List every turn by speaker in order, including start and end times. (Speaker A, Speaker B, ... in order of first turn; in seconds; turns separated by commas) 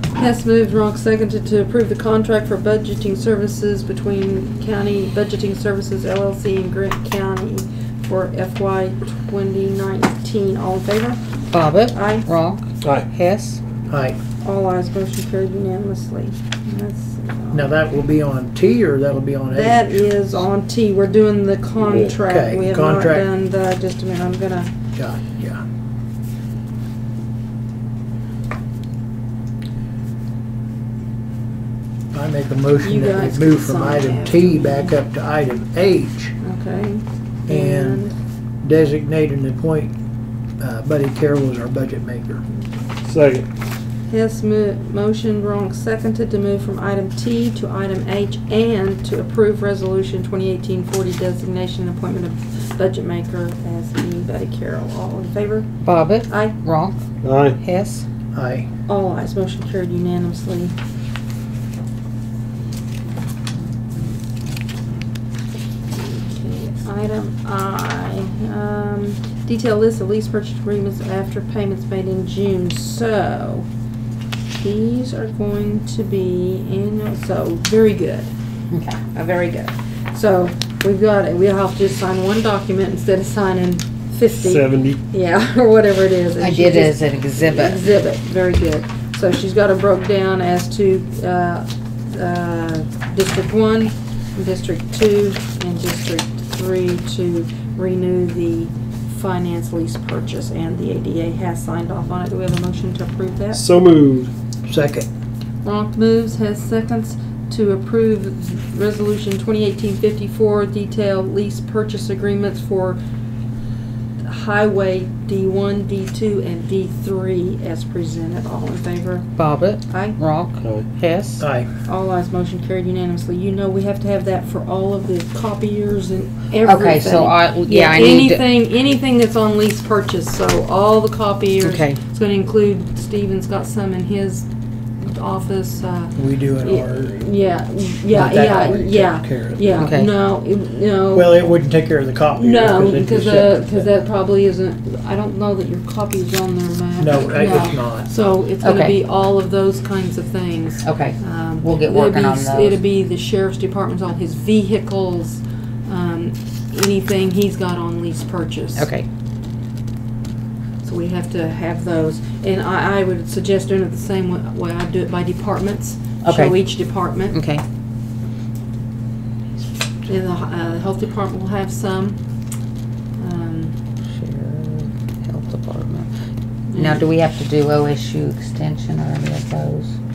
Speaker A: 0.1-11.2, Speaker B: 11.5-13.6, Speaker A: 11.9-12.3, Speaker C: 12.8-13.1, Speaker D: 13.9-14.2, Speaker A: 14.4-17.7, Speaker D: 17.5-20.3, Speaker A: 19.5-24.7, Speaker C: 21.9-22.1, Speaker D: 22.1-23.3, Speaker D: 24.9-25.6, Speaker D: 32.1-36.4, Speaker A: 32.8-34.9, Speaker A: 36.4-38.1, Speaker D: 37.5-38.0, Speaker D: 38.6-39.9, Speaker D: 40.6-42.4, Speaker C: 43.0-43.5, Speaker A: 44.1-55.7, Speaker B: 55.8-57.0, Speaker A: 56.3-56.6, Speaker C: 57.2-57.6, Speaker B: 57.6-58.0, Speaker D: 58.3-58.7, Speaker A: 58.9-60.8, Speaker A: 65.9-73.7, Speaker A: 74.6-78.3, Speaker B: 78.7-79.0, Speaker A: 79.1-103.6, Speaker C: 84.3-85.0, Speaker B: 86.4-87.8, Speaker C: 103.5-104.3, Speaker D: 104.7-105.1, Speaker A: 105.6-113.0, Speaker A: 114.2-119.3, Speaker B: 119.4-121.4, Speaker A: 119.9-120.2, Speaker D: 121.4-121.7, Speaker A: 121.8-134.5, Speaker B: 126.6-128.5, Speaker B: 131.6-132.0, Speaker A: 135.0-141.5, Speaker D: 136.2-137.2, Speaker D: 138.1-139.6, Speaker B: 139.8-140.1, Speaker D: 141.1-143.9, Speaker A: 142.3-158.9, Speaker D: 147.0-148.1, Speaker B: 148.6-149.0, Speaker B: 150.8-152.8, Speaker B: 158.8-159.1, Speaker A: 160.8-167.4, Speaker B: 166.2-166.6, Speaker B: 167.3-167.6, Speaker A: 170.1-172.2, Speaker A: 173.2-173.7, Speaker B: 174.2-176.1, Speaker A: 176.7-177.0, Speaker B: 176.7-179.9